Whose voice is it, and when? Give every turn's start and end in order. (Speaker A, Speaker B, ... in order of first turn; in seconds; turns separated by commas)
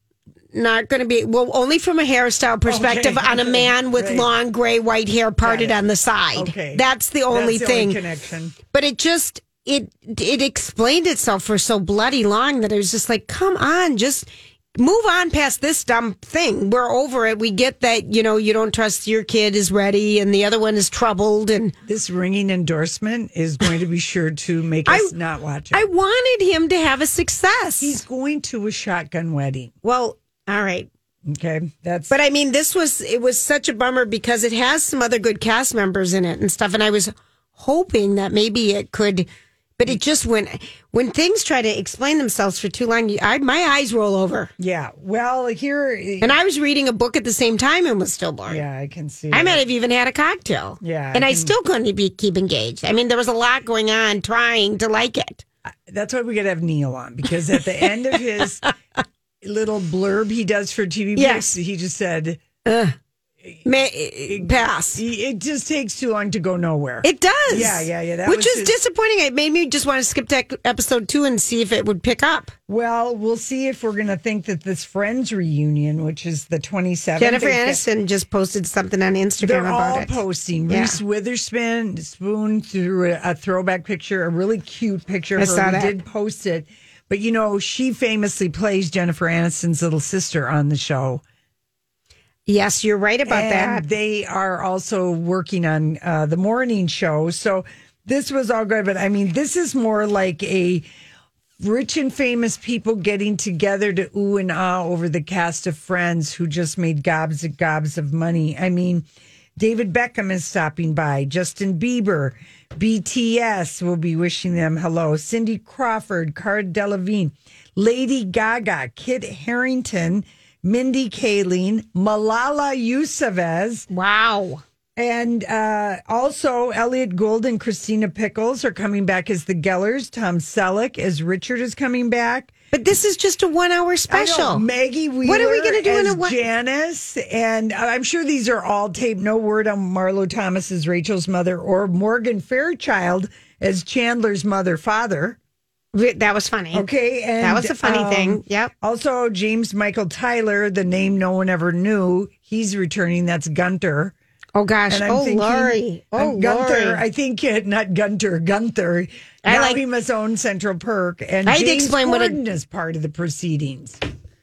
Speaker A: 0.5-8.0, Speaker B: 2.6-4.3, Speaker B: 5.4-5.8, Speaker B: 6.3-8.6, Speaker A: 8.7-21.7, Speaker B: 21.9-25.9, Speaker A: 24.9-25.1, Speaker A: 25.7-28.0, Speaker B: 27.8-29.7, Speaker A: 29.8-30.9, Speaker B: 31.3-32.1, Speaker A: 32.1-44.5, Speaker B: 44.6-46.4, Speaker A: 46.2-48.6, Speaker B: 48.5-49.6, Speaker A: 49.3-55.4, Speaker B: 50.8-51.5, Speaker B: 55.9-58.7, Speaker B: 59.4-62.4, Speaker A: 61.1-61.5, Speaker A: 62.6-62.9, Speaker A: 63.6-65.0, Speaker B: 64.3-68.7, Speaker A: 67.0-72.5, Speaker B: 72.7-77.8, Speaker A: 77.2-80.2, Speaker B: 79.4-91.2, Speaker A: 80.7-81.0, Speaker A: 85.3-85.9, Speaker A: 92.5-93.8, Speaker B: 93.3-100.9, Speaker B: 101.6-109.0, Speaker B: 109.6-123.8, Speaker A: 123.9-124.6, Speaker B: 125.0-132.5, Speaker A: 132.7-134.6, Speaker B: 134.1-145.4, Speaker A: 135.2-136.4, Speaker A: 145.9-146.9, Speaker B: 146.7-154.1, Speaker A: 147.4-148.7, Speaker A: 154.5-157.0, Speaker B: 154.9-164.0, Speaker A: 159.4-159.8, Speaker A: 161.4-162.4